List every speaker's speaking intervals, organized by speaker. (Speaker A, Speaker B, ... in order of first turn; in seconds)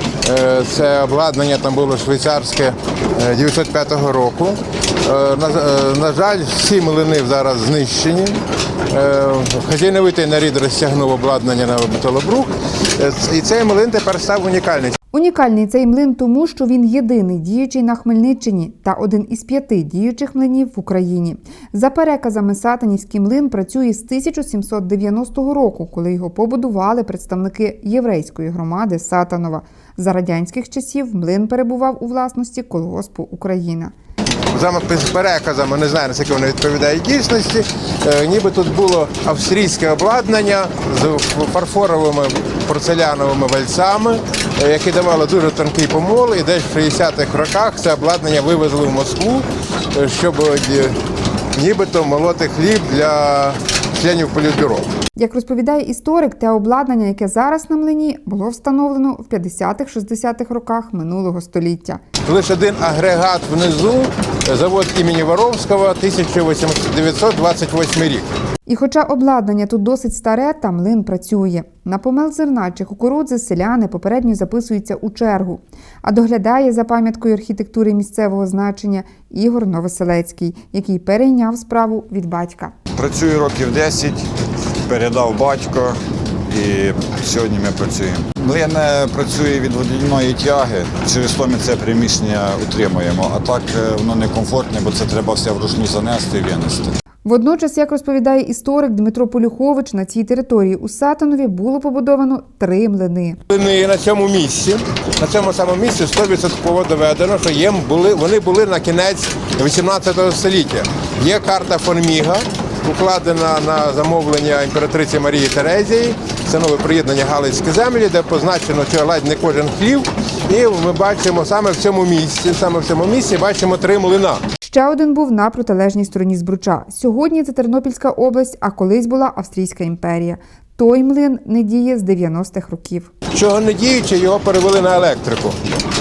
Speaker A: 0.2-14.9, 34.5-50.9, 51.5-54.9, 62.2-68.3, 103.5-124.4, 133.3-135.6
Speaker B: 15.1-33.9, 55.2-62.0, 68.7-82.7, 97.2-103.4, 124.6-133.1
Speaker C: 83.0-84.3, 84.8-86.0, 86.5-96.9